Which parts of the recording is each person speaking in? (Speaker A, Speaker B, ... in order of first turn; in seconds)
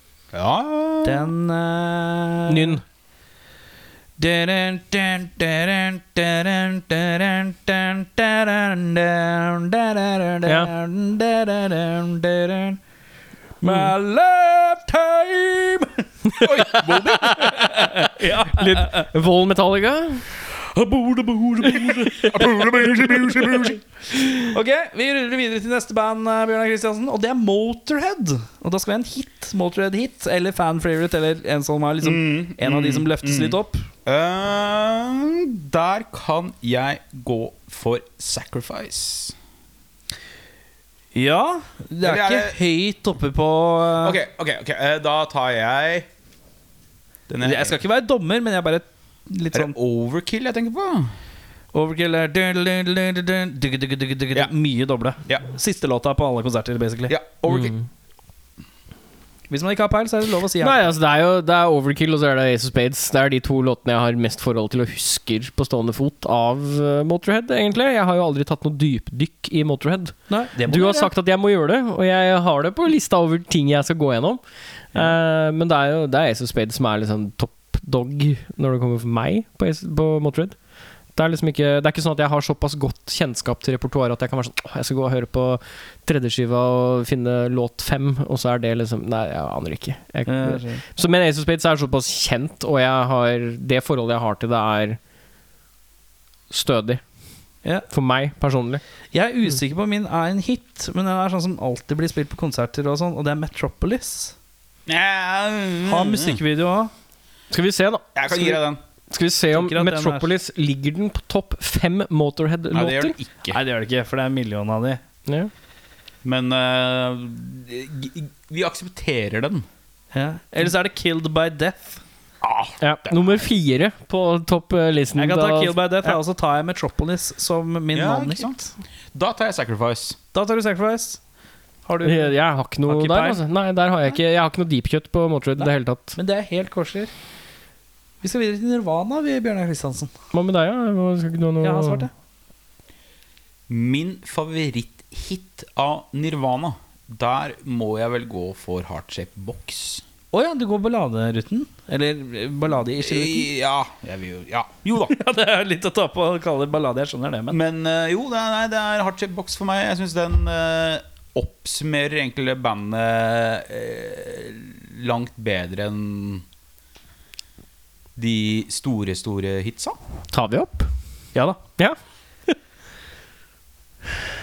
Speaker A: 0.3-1.3, 16.4-17.5, 21.8-23.8, 32.0-39.4, 42.0-42.6, 44.0-46.1, 47.3-47.8, 49.5-51.1, 57.1-57.8, 104.9-106.4, 108.2-108.8, 112.7-113.6, 116.2-119.7, 122.4-123.4, 127.9-130.2, 143.7-150.0, 153.0-155.2, 157.5-166.4, 168.2-170.0
Speaker B: 1.0-2.8, 4.2-12.8, 13.6-19.1, 20.7-33.9, 41.1-44.2, 47.4-49.8, 51.7-57.2, 59.5-60.9, 70.3-71.1, 90.3-90.8, 99.1-104.4, 105.9-106.9, 109.5-110.3, 113.5-115.0, 120.1-122.0, 125.2-128.7, 130.3-131.2, 131.9-132.3, 132.9-133.4, 135.6-137.1, 138.2-140.1, 141.6-142.1, 150.3-153.5, 155.1-157.6, 170.5-171.6
Speaker C: 2.5-2.8, 13.6-13.9, 18.5-20.3, 57.5-57.8, 60.6-74.4, 74.9-80.5, 81.2-95.0, 96.5-97.0, 97.9-98.8, 107.5-108.6, 109.1-113.2, 122.8-126.2, 132.0-136.2, 140.3-142.1